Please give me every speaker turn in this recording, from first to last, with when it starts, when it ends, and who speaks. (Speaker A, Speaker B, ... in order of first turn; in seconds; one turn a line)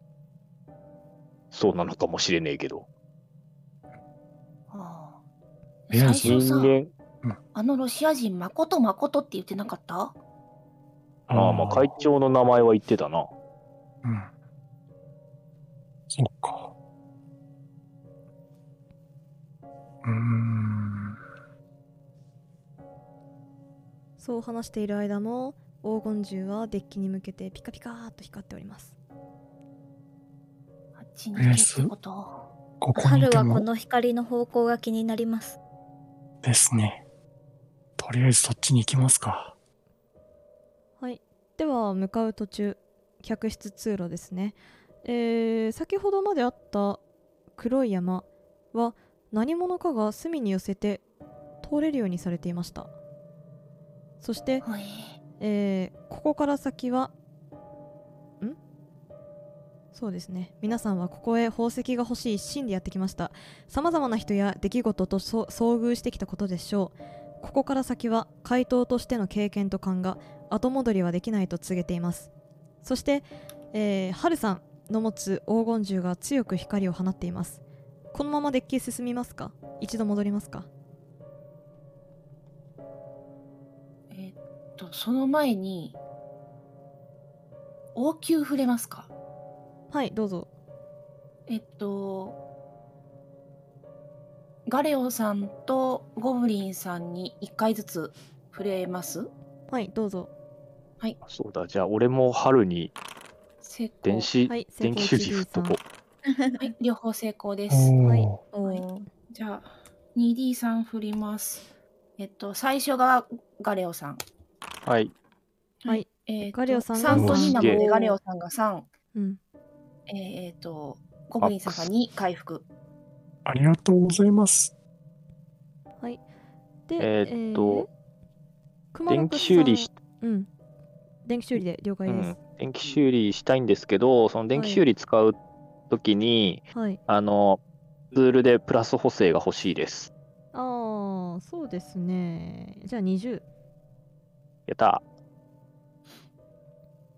Speaker A: 1.5-2.9
Speaker B: 4.7-5.2
Speaker B: 5.9-6.8
Speaker C: 5.9-6.4
Speaker A: 6.2-6.9
Speaker B: 7.5-10.2
Speaker C: 11.3-12.0
Speaker A: 11.3-13.3
Speaker C: 14.0-14.3
Speaker C: 16.1-16.7
Speaker C: 20.0-21.2
Speaker D: 24.2-28.9
Speaker B: 31.0-32.5
Speaker C: 31.4-31.9
Speaker C: 32.8-33.7
Speaker E: 33.0-35.6
Speaker C: 36.4-37.0
Speaker C: 38.0-39.5
Speaker D: 41.0-47.0
Speaker D: 47.6-51.0
Speaker D: 51.6-52.9
Speaker D: 54.2-54.7
Speaker B: 54.6-55.2
Speaker D: 55.4-57.1
Speaker D: 59.9-72.3
Speaker D: 72.8-77.6
Speaker D: 78.1-80.7
Speaker B: 84.1-86.0
Speaker B: 88.0-89.1
Speaker D: 89.9-90.5
Speaker B: 91.5-92.4
Speaker B: 94.7-99.3
Speaker D: 99.7-100.3
Speaker A: 101.3-102.9
Speaker B: 103.6-104.3
Speaker A: 104.0-105.8
Speaker D: 104.5-105.8
Speaker E: 106.3-106.7
Speaker B: 106.6-108.0
Speaker C: 107.7-108.4
Speaker D: 108.0-108.3
Speaker E: 108.5-109.1
Speaker B: 108.6-111.7
Speaker B: 112.2-114.2
Speaker A: 114.9-115.1
Speaker B: 115.8-118.9
Speaker D: 115.9-117.8
Speaker C: 117.1-117.5
Speaker A: 117.2-117.8
Speaker E: 117.8-118.1
Speaker D: 119.1-119.4
Speaker B: 120.1-122.7
Speaker A: 121.4-121.8
Speaker C: 123.5-124.7
Speaker D: 126.9-127.9
Speaker A: 127.0-127.9
Speaker D: 128.9-130.5
Speaker A: 129.1-129.9
Speaker D: 131.2-132.3
Speaker A: 132.1-135.4
Speaker D: 134.5-134.8
Speaker A: 135.9-137.6
Speaker D: 136.7-137.0
Speaker A: 138.1-140.1
Speaker D: 140.5-143.4
Speaker A: 144.7-145.0